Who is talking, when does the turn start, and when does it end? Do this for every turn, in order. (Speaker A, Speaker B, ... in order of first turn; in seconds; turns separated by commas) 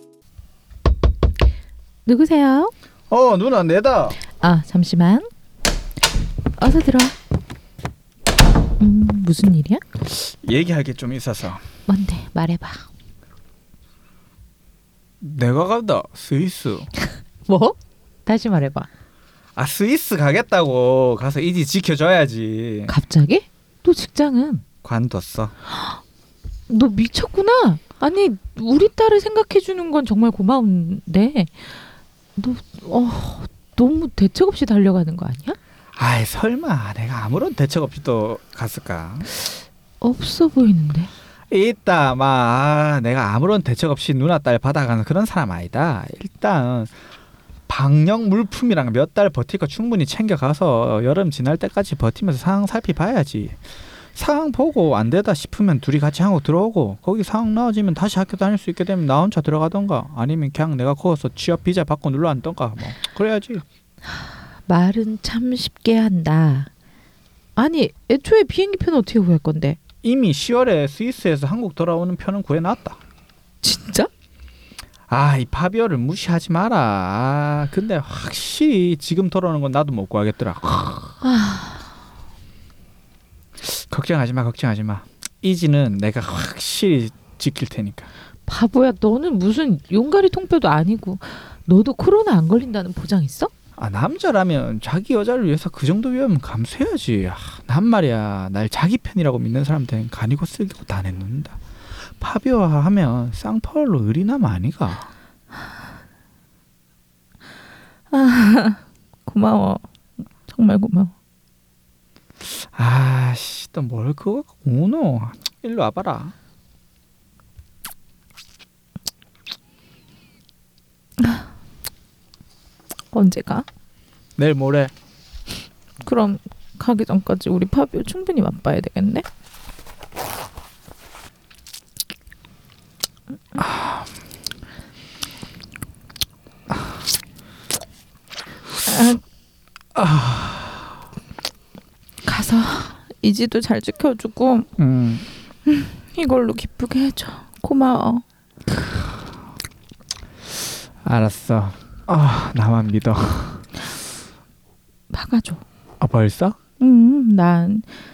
Speaker A: 2.1-2.7, Speaker B: 3.1-4.2, Speaker A: 4.4-5.3, Speaker A: 6.6-7.2, Speaker A: 8.8-9.8, Speaker B: 10.3-11.6, Speaker A: 11.9-12.8, Speaker B: 15.2-16.9, Speaker A: 17.5-18.9, Speaker B: 19.6-22.9, Speaker A: 22.9-24.6, Speaker B: 24.8-25.5, Speaker A: 26.7-31.7, Speaker A: 32.4-35.6, Speaker B: 36.0-39.3, Speaker A: 40.0-41.1, Speaker B: 41.5-46.9, Speaker B: 47.7-53.6, Speaker B: 54.1-63.6, Speaker A: 64.7-66.7, Speaker A: 67.6-69.8, Speaker B: 70.0-73.0, Speaker A: 73.6-74.1, Speaker B: 75.1-81.2, Speaker A: 81.2-81.8, Speaker B: 83.6-88.1, Speaker A: 88.5-93.5, Speaker B: 93.8-101.6, Speaker B: 102.2-105.1, Speaker A: 108.1-109.9, Speaker A: 110.5-111.1, Speaker B: 112.7-116.3, Speaker A: 121.2-121.5, Speaker A: 123.1-123.7, Speaker B: 124.4-124.9, Speaker A: 126.0-129.2, Speaker B: 133.6-134.1, Speaker A: 138.9-139.2, Speaker B: 139.9-140.8, Speaker A: 142.2-144.7, Speaker B: 144.8-145.2, Speaker A: 145.7-148.2, Speaker B: 151.0-153.6, Speaker A: 155.1-155.6, Speaker B: 156.0-156.6, Speaker A: 156.8-157.9